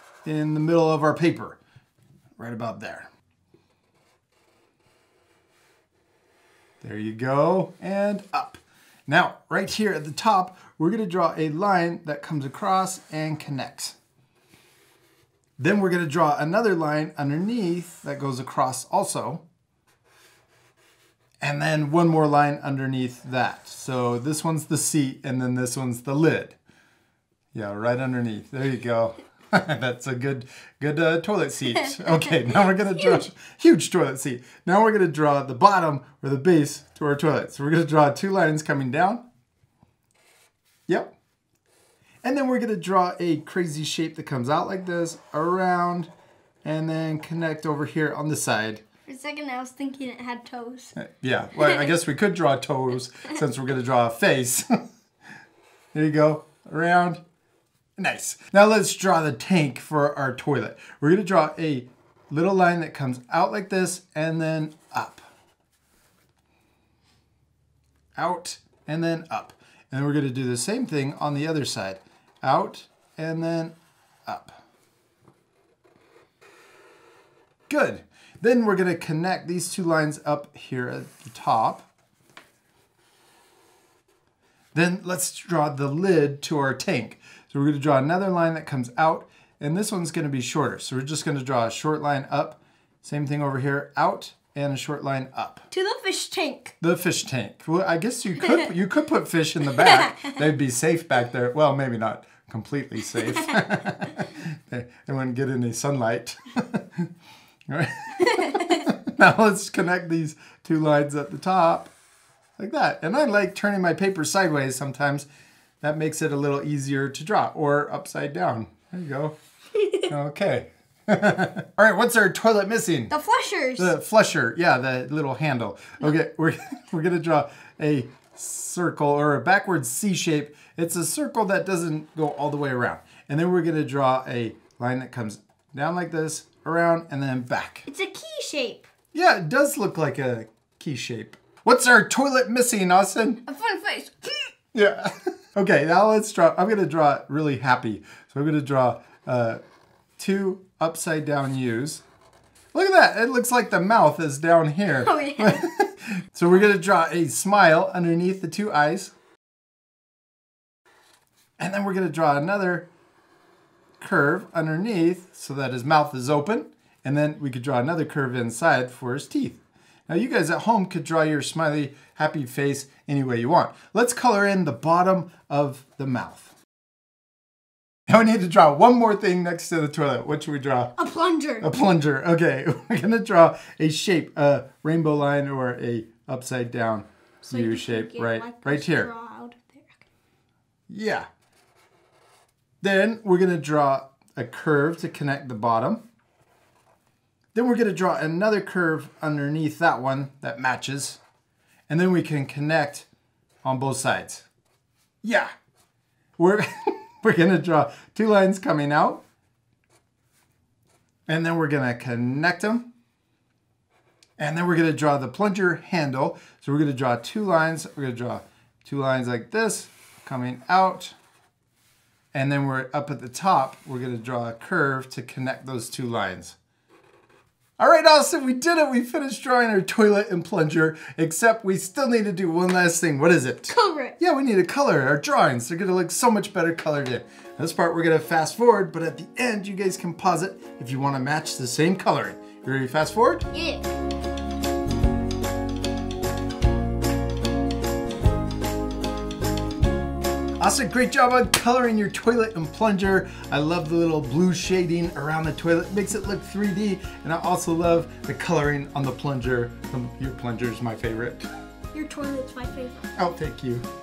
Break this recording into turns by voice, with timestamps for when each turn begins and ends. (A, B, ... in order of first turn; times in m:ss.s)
0:00.2-0:01.6 A
0:02.4-0:03.1 A
0:06.8-0:14.0 A
0:15.6-0:19.4 A
0:21.4-0:26.6 A
0:27.5-0:39.2 A
0:32.0-0:33.2 B
0:42.2-0:46.1 A
0:46.6-0:48.8 A
0:49.0-0:50.9 B
0:51.0-0:54.7 A
0:51.6-0:51.9 B
0:55.9-0:57.2 A
0:58.0-1:05.3 A
1:08.2-1:13.7 A
1:14.2-1:14.6 A
1:17.7-1:21.9 A
1:24.7-1:35.6 A
1:35.7-1:36.7 B
1:36.8-1:47.1 A
1:38.4-1:38.7 B
1:39.8-1:40.4 B
1:47.7-1:51.9 A
1:48.3-1:48.8 B
1:52.6-1:55.3 A
1:55.8-1:59.3 A
1:59.9-2:03.1 A
2:03.1-2:03.9 B
2:03.8-2:17.9 A
2:17.9-2:18.8 B
2:19.1-2:23.4 A
2:23.4-2:24.5 B
2:24.7-2:29.6 A
2:30.2-2:32.0 A
2:32.7-2:39.1 A
2:34.9-2:35.6 B
2:41.6-2:42.9 A
2:44.0-2:56.5 A
2:58.1-3:00.9 A
3:01.0-3:01.7 B
3:01.6-3:09.1 A
3:07.4-3:10.0 B
3:10.9-3:11.3 A
3:12.8-3:16.0 A
3:17.5-3:21.2 A
3:21.9-3:23.1 A
3:23.6-3:24.4 A
3:25.2-3:25.5 A
3:26.4-3:29.2 A
3:31.3-3:32.9 A
3:34.4-3:41.1 A
3:42.3-3:46.6 A
3:47.8-4:03.5 A
3:53.7-3:54.2 B
4:03.5-4:03.9 B
4:10.6-4:21.4 A
4:21.9-4:23.1 B
4:23.2-4:23.8 A